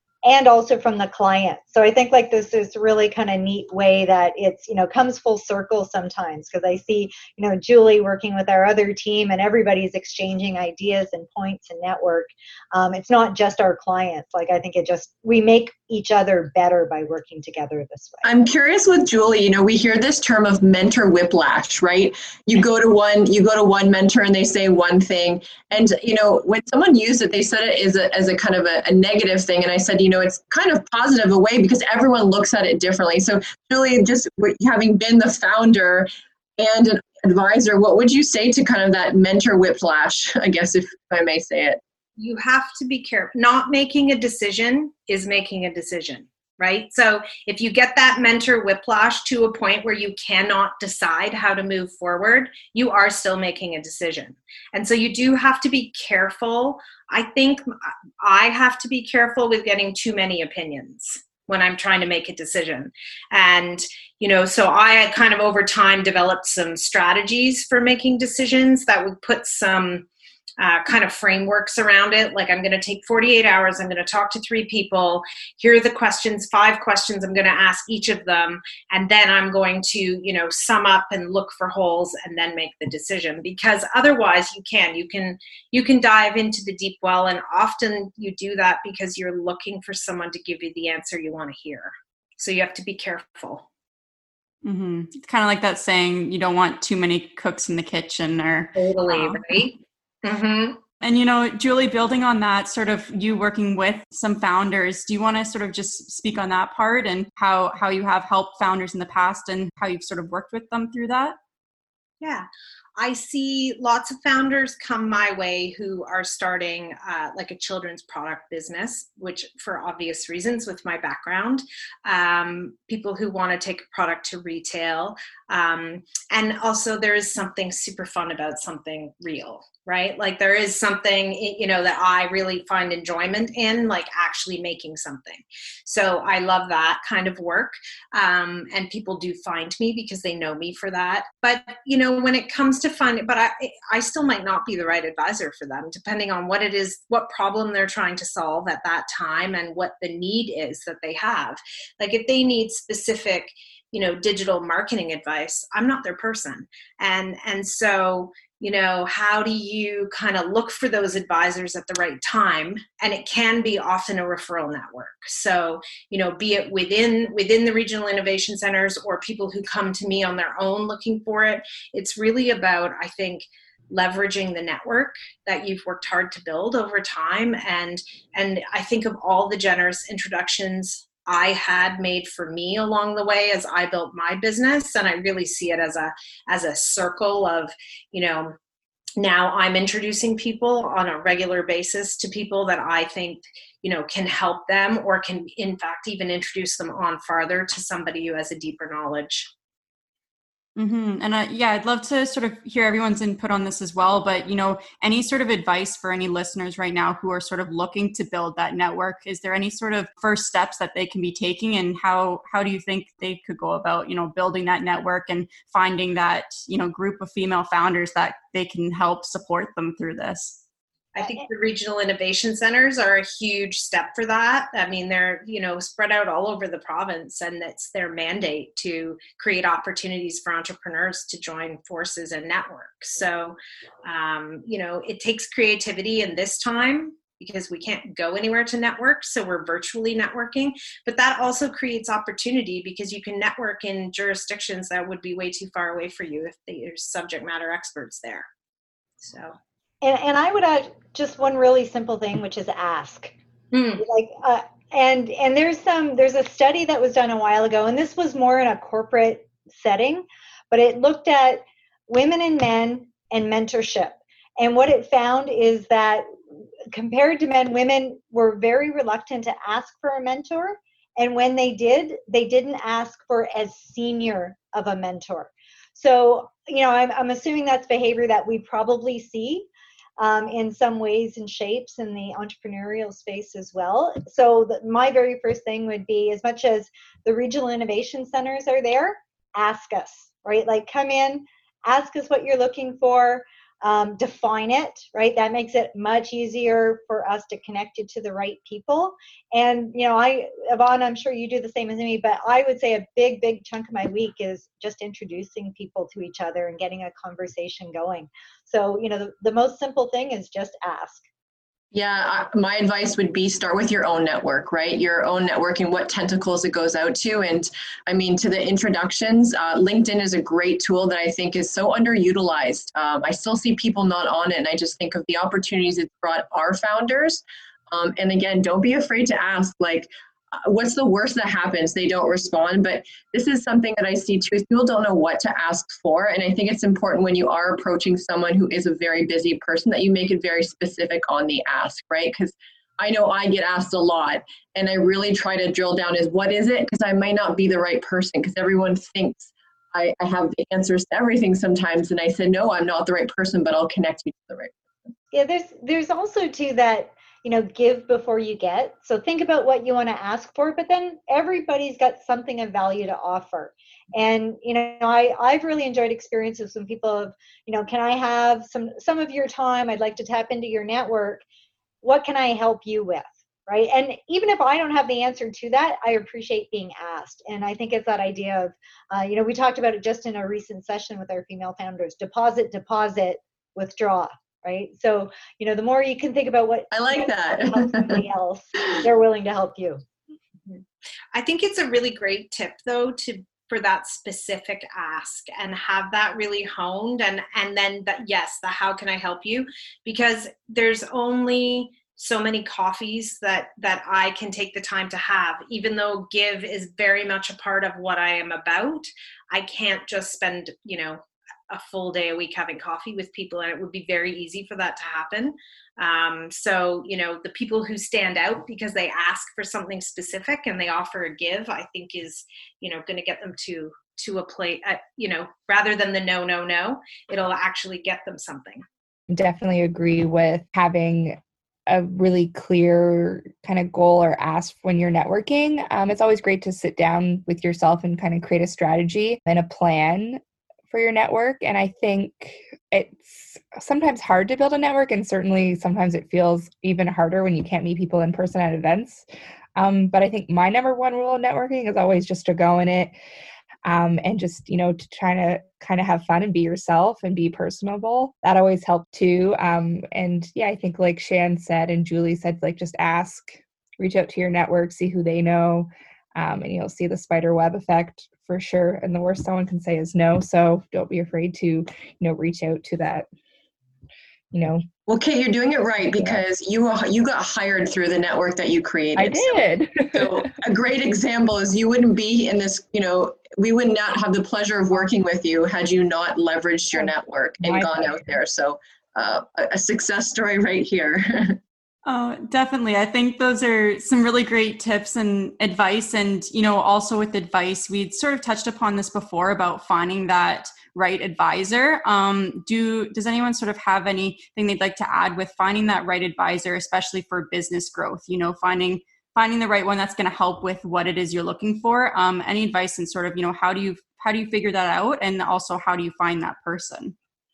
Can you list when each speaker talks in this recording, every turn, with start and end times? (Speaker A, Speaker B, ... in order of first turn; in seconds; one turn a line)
Speaker A: 0.2-18.3
Speaker B: 18.2-41.8
Speaker C: 42.2-57.7
Speaker C: 58.2-70.1
Speaker C: 70.6-93.7
Speaker D: 94.6-99.4
Speaker C: 98.8-100.8
Speaker D: 101.0-111.4
Speaker C: 112.2-188.6
Speaker C: 189.2-199.5
Speaker D: 200.8-220.6
Speaker C: 221.2-248.5
Speaker C: 249.2-249.6
Speaker A: 250.0-253.3
Speaker C: 253.7-254.0
Speaker A: 254.0-266.3
Speaker A: 266.9-279.7
Speaker A: 280.2-311.3
Speaker B: 311.9-330.1
Speaker B: 330.6-354.8
Speaker A: 355.3-371.4
Speaker A: 372.0-390.0
Speaker B: 386.9-388.2
Speaker C: 391.3-428.8
Speaker E: 429.3-453.1
Speaker E: 453.9-473.3
Speaker E: 474.5-474.9
Speaker B: 475.1-479.6
Speaker E: 476.1-476.4
Speaker E: 479.2-480.5
Speaker B: 480.1-491.6
Speaker E: 487.0-488.2
Speaker D: 492.1-517.1